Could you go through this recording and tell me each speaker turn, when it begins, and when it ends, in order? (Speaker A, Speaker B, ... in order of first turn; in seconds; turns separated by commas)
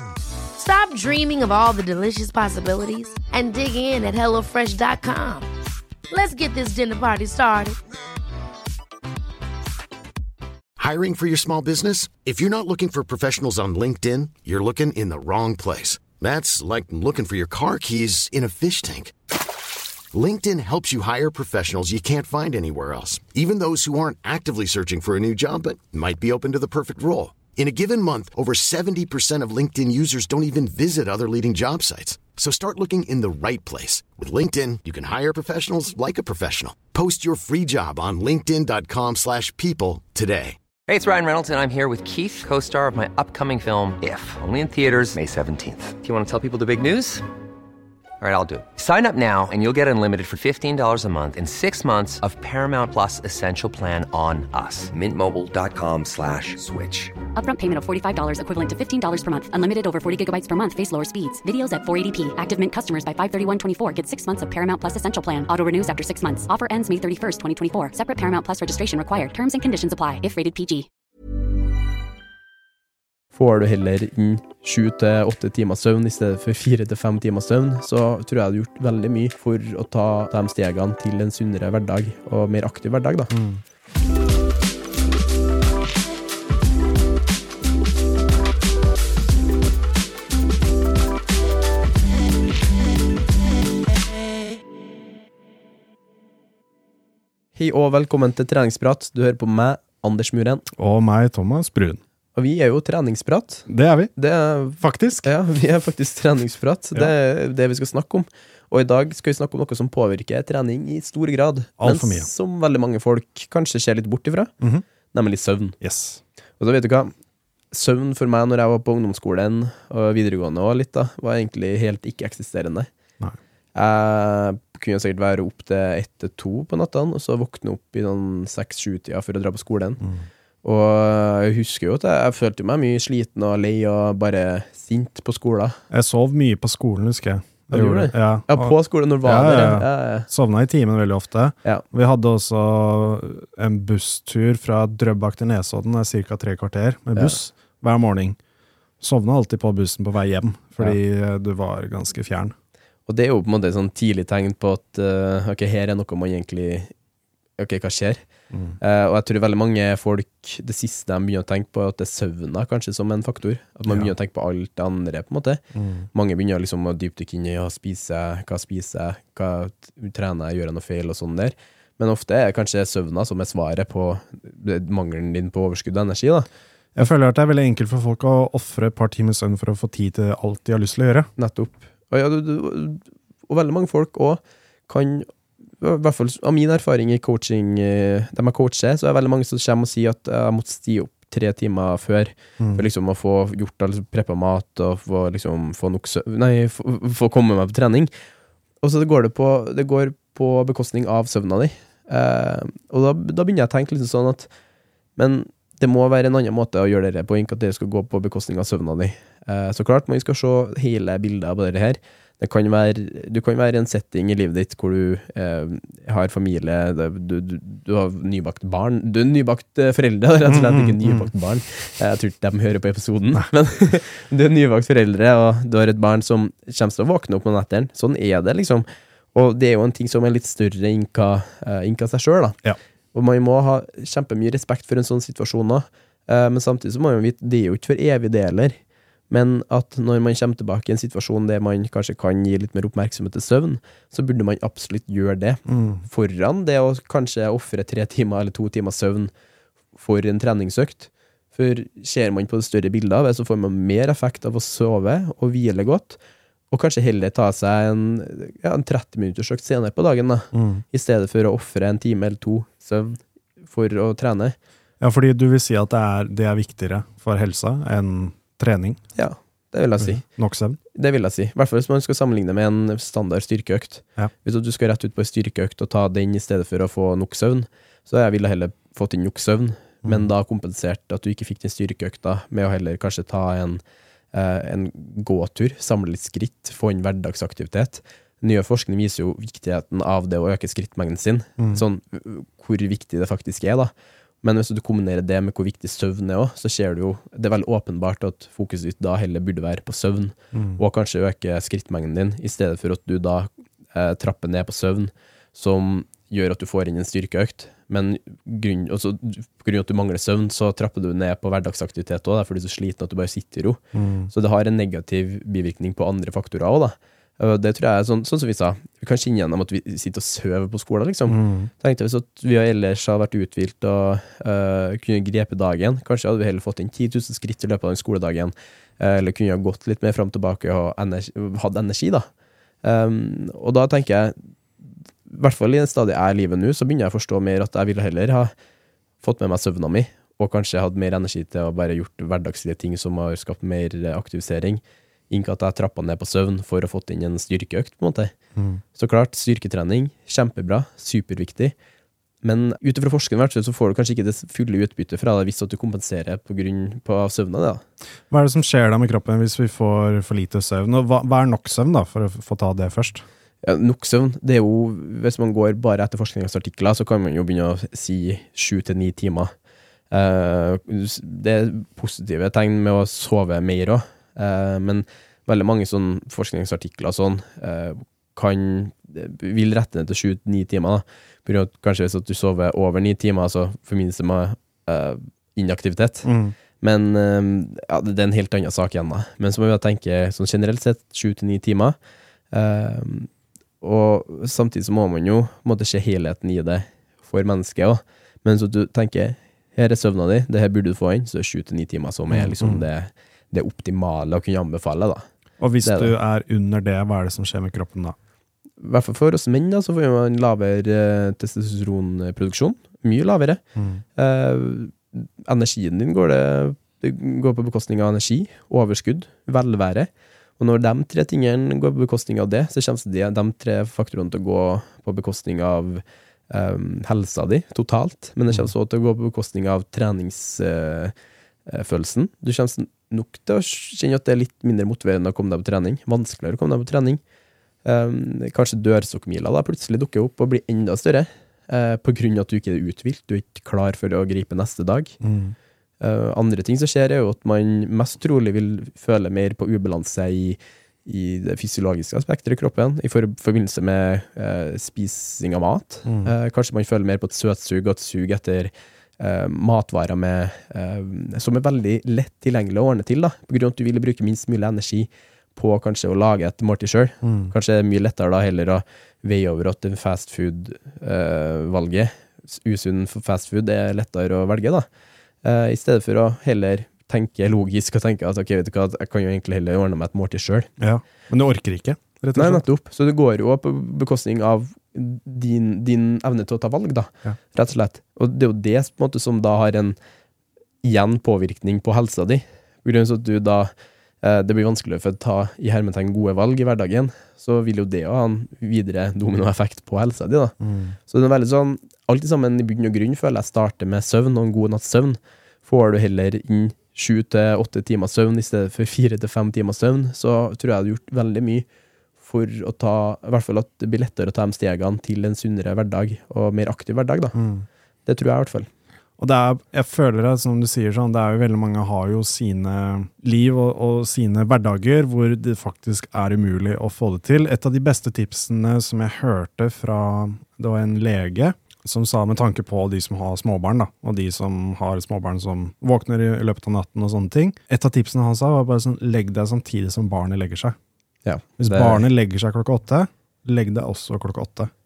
Speaker A: 0.6-5.5, Speaker A: 6.1-7.8, Speaker B: 10.8-19.1, Speaker B: 20.1-40.6, Speaker C: 40.9-47.2, Speaker C: 48.2-57.2, Speaker D: 57.4-70.9, Speaker E: 73.3-83.3, Speaker F: 83.3-83.6, Speaker E: 97.5-100.7, Speaker F: 100.7-102.0, Speaker E: 102.3-114.5, Speaker F: 103.7-104.1, Speaker F: 104.8-105.3, Speaker F: 111.8-112.3, Speaker E: 115.1-115.8, Speaker F: 115.8-116.2, Speaker E: 116.6-117.1, Speaker E: 117.7-122.9, Speaker E: 123.8-130.0, Speaker F: 130.0-130.3, Speaker E: 130.6-135.8, Speaker F: 135.9-148.4, Speaker E: 137.7-140.3, Speaker F: 149.0-152.5, Speaker E: 153.1-156.9, Speaker E: 157.6-158.2, Speaker F: 158.5-158.8, Speaker E: 158.8-165.6, Speaker F: 165.7-166.1, Speaker E: 166.1-176.5, Speaker F: 176.9-181.3, Speaker E: 181.4-185.3, Speaker E: 185.8-198.1, Speaker F: 192.6-192.8, Speaker E: 198.8-204.5, Speaker E: 205.2-232.6, Speaker F: 220.5-221.3, Speaker E: 233.1-238.8, Speaker E: 239.3-249.3, Speaker F: 245.7-246.1, Speaker E: 250.0-256.2, Speaker E: 256.7-264.6, Speaker F: 260.5-260.8, Speaker F: 265.0-269.0, Speaker E: 269.1-270.2, Speaker F: 270.0-270.8, Speaker E: 270.9-283.8, Speaker E: 284.3-293.9, Speaker E: 294.4-332.3, Speaker F: 300.5-300.8, Speaker F: 313.9-314.3, Speaker F: 321.3-321.7, Speaker E: 332.8-334.4, Speaker E: 335.3-338.5, Speaker E: 339.2-348.3, Speaker F: 348.6-348.8, Speaker E: 348.9-351.7, Speaker E: 352.4-357.8, Speaker F: 358.3-363.2, Speaker E: 363.6-369.5, Speaker E: 370.1-386.3, Speaker F: 386.2-386.6, Speaker E: 386.8-392.0, Speaker E: 392.5-393.3, Speaker E: 393.8-405.2, Speaker F: 402.3-402.8, Speaker F: 405.6-408.2, Speaker E: 405.8-406.1, Speaker E: 408.8-413.6, Speaker F: 413.8-414.0, Speaker E: 414.2-431.1, Speaker E: 431.7-437.2, Speaker E: 437.9-445.2, Speaker F: 445.2-445.6, Speaker E: 446.0-474.9, Speaker F: 456.1-456.3, Speaker F: 467.2-467.5, Speaker E: 475.4-480.7, Speaker F: 480.8-482.6, Speaker E: 482.4-490.0, Speaker E: 490.8-500.6, Speaker F: 500.6-501.0, Speaker E: 501.1-511.7, Speaker E: 512.2-517.4, Speaker F: 517.3-517.7, Speaker E: 518.1-518.7, Speaker F: 519.2-540.8, Speaker E: 541.2-542.0, Speaker F: 541.6-544.7